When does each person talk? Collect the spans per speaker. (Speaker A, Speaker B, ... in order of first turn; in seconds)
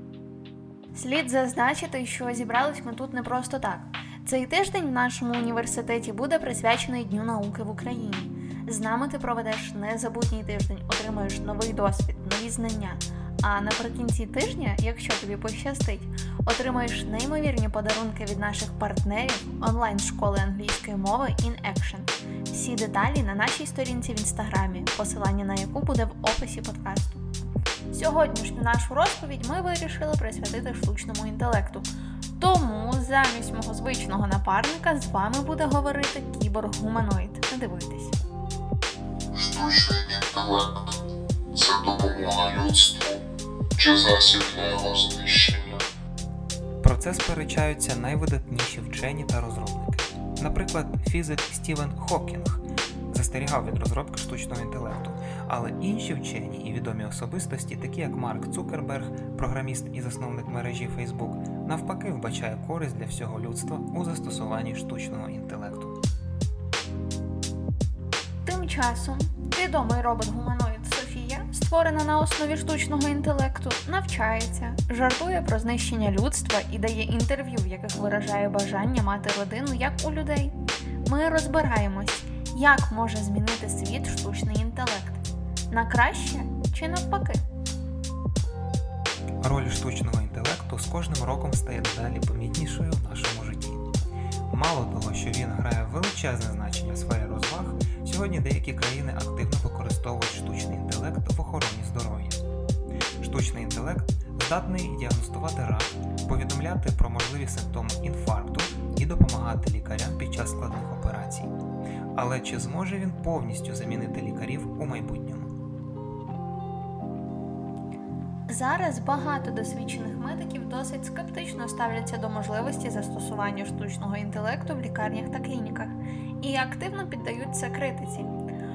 Speaker A: 0.9-27.2, 27.9-38.2, 68.4-87.4, 118.5-128.3
Speaker B: 39.3-40.9, 41.5-43.2, 43.8-45.9
Speaker C: 46.8-66.0, 89.4-93.9, 94.5-102.4, 103.2-111.5, 112.1-115.5